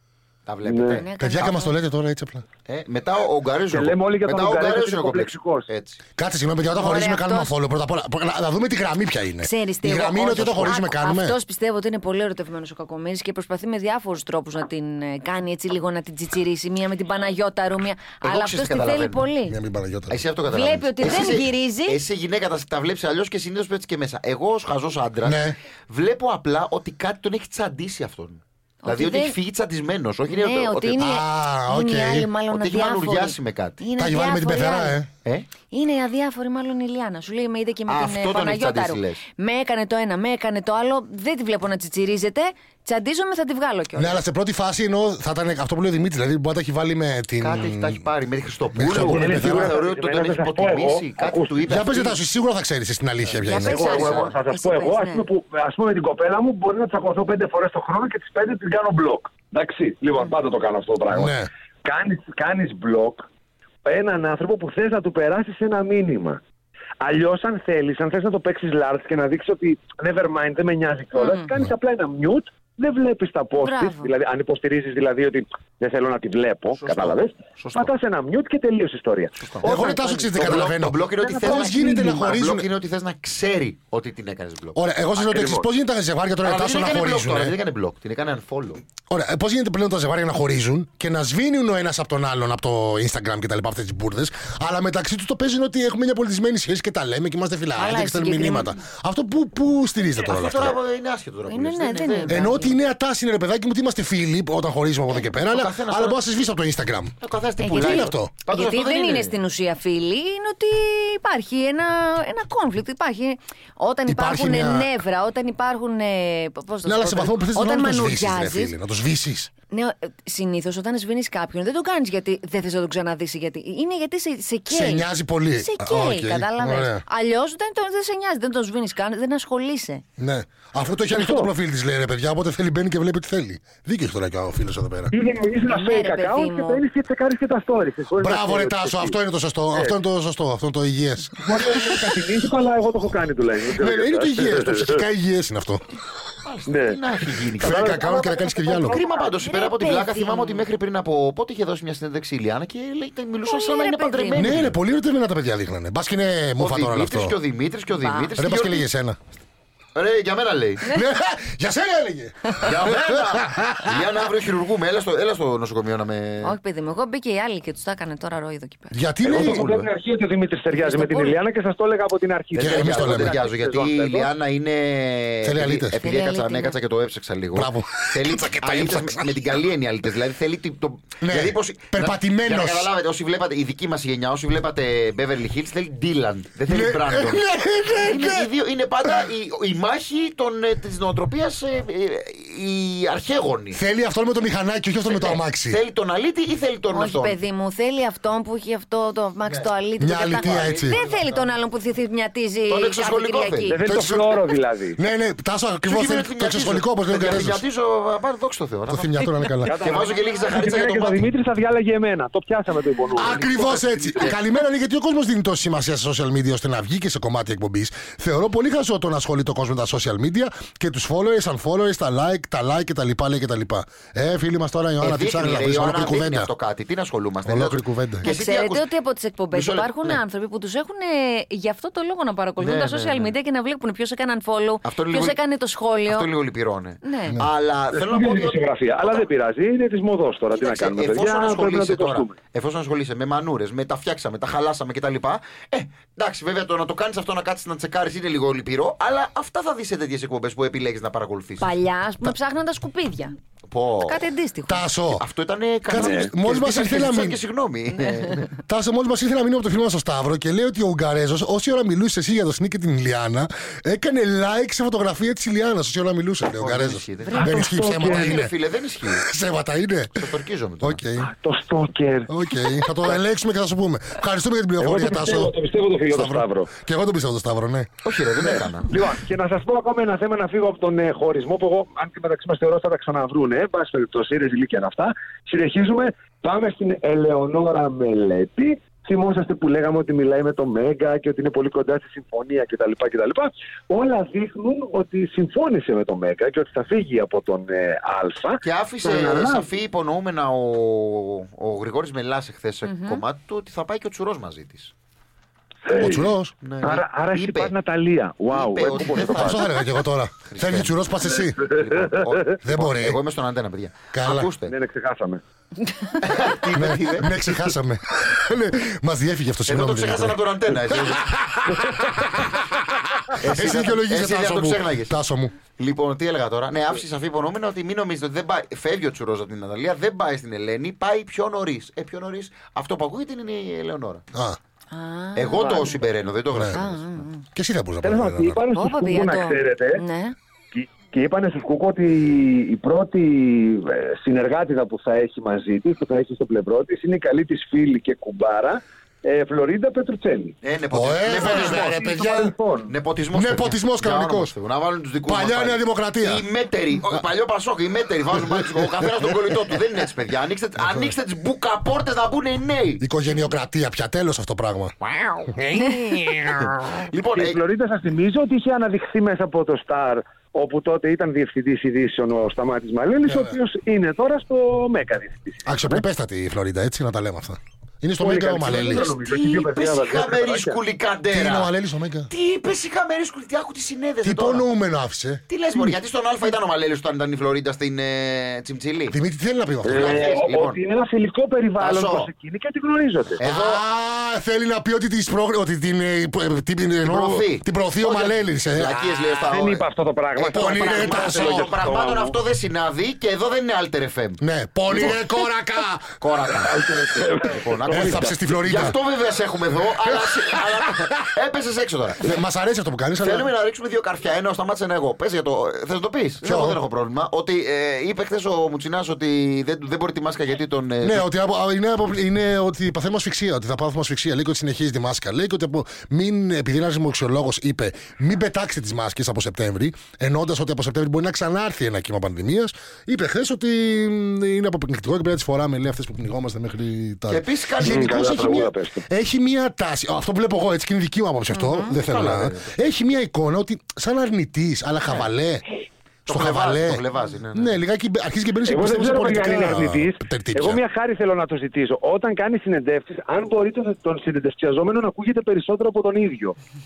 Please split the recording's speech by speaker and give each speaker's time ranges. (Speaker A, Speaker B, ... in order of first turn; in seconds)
Speaker A: 0.5-1.1, 2.6-6.0, 18.2-19.3, 20.1-25.4, 25.9-31.0, 32.5-33.8, 37.9-39.2, 47.4-52.2, 53.9-54.3, 76.8-77.9, 79.4-85.2, 86.4-88.8, 100.2-102.6, 105.1-106.2, 107.2-109.3, 146.4-148.0, 148.8-154.7, 156.6-158.8, 159.9-160.9, 162.6-166.6, 169.2-169.9, 172.5-187.4, 188.0-193.8, 195.1-197.4, 200.3-201.5, 202.7-203.8, 205.8-211.2, 213.3-214.3, 225.0-228.9, 229.5-230.2, 232.6-233.3, 234.8-235.4, 236.1-239.3, 240.5-251.7, 253.7-254.2, 255.1-258.5, 266.6-269.3, 270.1-271.0, 278.0-278.9, 298.6-304.9, 306.6-307.7, 308.5-309.7, 310.4-314.7, 316.2-317.3, 319.7-321.3, 323.4-325.1, 325.8-334.2, 335.4-337.2, 350.6-352.0, 352.9-363.0, 365.1-367.6, 378.6-381.7, 382.3-384.6, 385.5-389.2, 389.9-390.8, 391.8-392.3, 393.4-393.8, 397.0-399.8, 400.4-405.2, 406.2-412.3, 413.2-421.2, 437.3-438.5, 441.9-442.7, 446.2-447.8
Speaker B: 0.6-1.0, 3.7-5.7, 49.0-51.6, 53.6-63.2, 63.8-66.4, 67.0-82.1, 85.2-85.6, 131.1-131.5, 135.1-139.1, 141.4-145.0, 146.7-147.0, 147.6-148.9, 169.2-174.3, 203.7-205.0, 209.6-214.2, 237.9-242.3, 256.0-256.3, 267.3-268.4, 271.2-272.3, 274.8-276.7, 278.4-299.7, 305.9-306.3, 306.8-309.6, 314.6-315.4, 335.6-336.0, 338.0-340.0, 340.7-350.5, 351.3-352.9, 367.3-376.0, 378.2-380.8, 389.8-393.4, 399.4-402.4, 406.6-408.3, 437.8-439.0, 448.6-456.6
Speaker C: 1.0-1.7, 6.7-7.5, 9.4-19.6, 20.5-22.0, 28.8-29.3, 30.3-35.0, 35.7-44.2, 53.5-55.2, 71.2-71.5, 73.6-74.1, 97.8-98.7, 101.5-102.7, 107.6-118.7, 119.7-130.0, 135.7-136.8, 148.9-150.6, 153.4-154.5, 157.9-158.3, 166.4-169.0, 170.7-171.3, 176.0-176.8, 196.9-203.8, 228.2-236.3, 237.0-237.4, 251.6-253.3, 254.0-254.8, 302.9-303.2, 334.9-336.0, 336.7-337.4, 338.7-340.3, 441.5-441.9
Speaker D: 1.2-2.4, 6.2-11.4, 19.5-20.2, 25.2-25.6, 31.0-32.3, 34.0-35.1, 44.0-48.0, 48.8-49.7, 51.7-54.0, 61.1-61.5, 79.6-82.7, 84.7-87.5, 89.1-100.8, 102.3-108.3, 114.1-114.9, 116.8-119.5, 124.7-127.0, 130.2-135.1, 138.2-142.0, 143.8-145.8, 147.6-149.0, 154.3-157.3, 158.4-159.2, 160.8-164.1, 168.9-169.7, 172.6-173.3, 175.4-175.9, 177.5-179.4, 181.2-182.9, 186.7-188.5, 193.7-195.8, 200.0-201.0, 203.9-204.4, 204.9-207.6, 208.9-209.8, 213.2-226.5, 227.4-228.3, 254.7-255.2, 255.9-257.4, 258.6-268.5, 269.0-271.3, 272.3-275.5, 276.1-277.9, 306.0-306.5, 309.2-311.6, 312.6-313.2, 314.1-314.5, 316.7-322.7, 323.4-325.5, 334.3-334.6, 336.5-336.8, 337.5-338.6, 350.9-352.5, 353.3-354.5, 355.2-356.4, 358.4-359.6, 360.8-361.1, 363.0-364.9, 366.3-366.7, 373.2-373.6, 375.6-379.1, 381.3-382.3, 384.2-386.0, 389.1-390.2, 393.4-398.9, 400.5-401.8, 404.4-406.1, 407.9-409.0, 410.2-411.1, 412.2-413.5, 416.4-416.8, 421.0-445.6, 446.3-447.0, 447.5-450.8